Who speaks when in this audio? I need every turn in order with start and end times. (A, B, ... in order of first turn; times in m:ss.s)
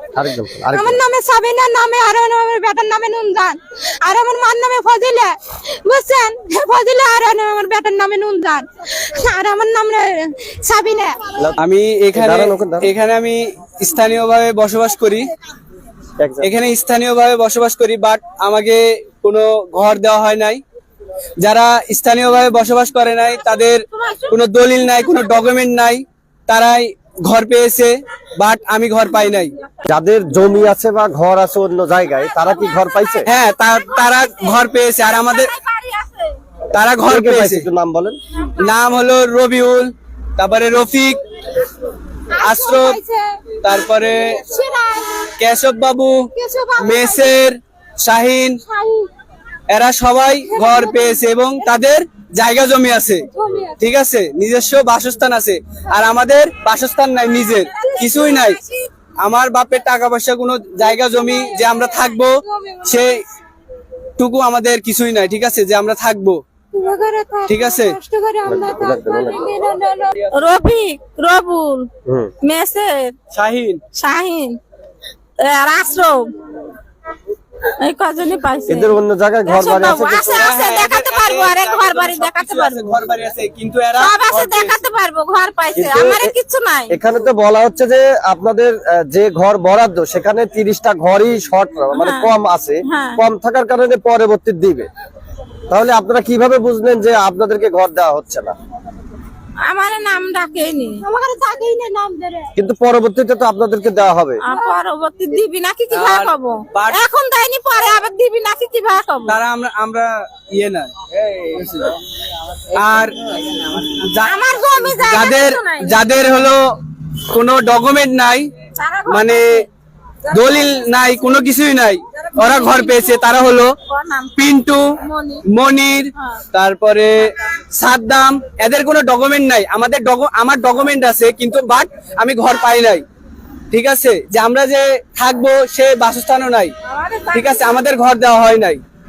0:00.2-0:01.0 A
0:00.7-0:11.2 B
0:11.6-0:15.3 C
0:12.1-0:12.9 A
0:16.2-0:16.5 A
0:16.4-0:20.6 C
0:21.4-0:29.5 C
0:23.9-0:24.3 D
0:29.9-0:33.3 A
0:33.2-0:35.5 C
0:35.3-0:36.4 D
0:36.7-0:37.6 C
0:37.0-0:38.2 A
0:38.6-0:41.2 C
0:42.3-0:43.4 B
0:42.4-0:43.0 C
0:43.6-0:44.4 C
0:43.9-0:45.3 B
0:45.4-0:46.2 C
0:46.3-0:47.4 B
0:46.8-0:48.6 C
0:48.7-0:49.1 B
0:49.7-0:53.2 C
0:50.5-0:51.3 B
0:53.3-0:53.8 B
0:53.8-0:58.6 C
0:57.8-0:58.5 B
0:57.8-0:58.6 D
0:59.2-1:03.2 C
1:00.9-1:03.1 B
1:04.2-1:06.4 C
1:06.7-1:10.3 B
1:07.5-1:08.0 C
1:08.5-1:09.5 A
1:10.3-1:11.9 D
1:12.1-1:12.3 A
1:12.4-1:13.1 D
1:13.3-1:13.8 C
1:13.9-1:14.6 D
1:15.4-1:16.3 D
1:17.8-1:22.8 D
1:18.7-1:20.5 A
1:20.3-1:24.8 C
1:24.0-1:27.0 D
1:25.7-1:26.3 A
1:26.9-1:34.9 A
1:32.0-1:32.3 D
1:32.8-1:33.2 D
1:35.7-1:38.6 A
1:39.6-1:41.0 D
1:41.0-1:42.5 B
1:42.6-1:44.4 A
1:44.4-1:49.4 D
1:44.5-1:44.8 B
1:45.9-1:47.0 C
1:49.3-1:52.0 C
1:52.7-1:56.6 C
1:54.2-1:56.0 D
1:57.3-1:58.5 C
1:58.8-1:59.6 D
1:59.1-1:59.6 C
2:00.3-2:01.1 D
2:00.3-2:03.7 C
2:02.3-2:03.2 D
2:03.9-2:04.3 D
2:04.4-2:04.9 C
2:05.0-2:05.4 D
2:05.5-2:13.0 C
2:06.2-2:06.4 D
2:13.7-2:16.7 C
2:16.9-2:17.8 D
2:17.3-2:18.8 C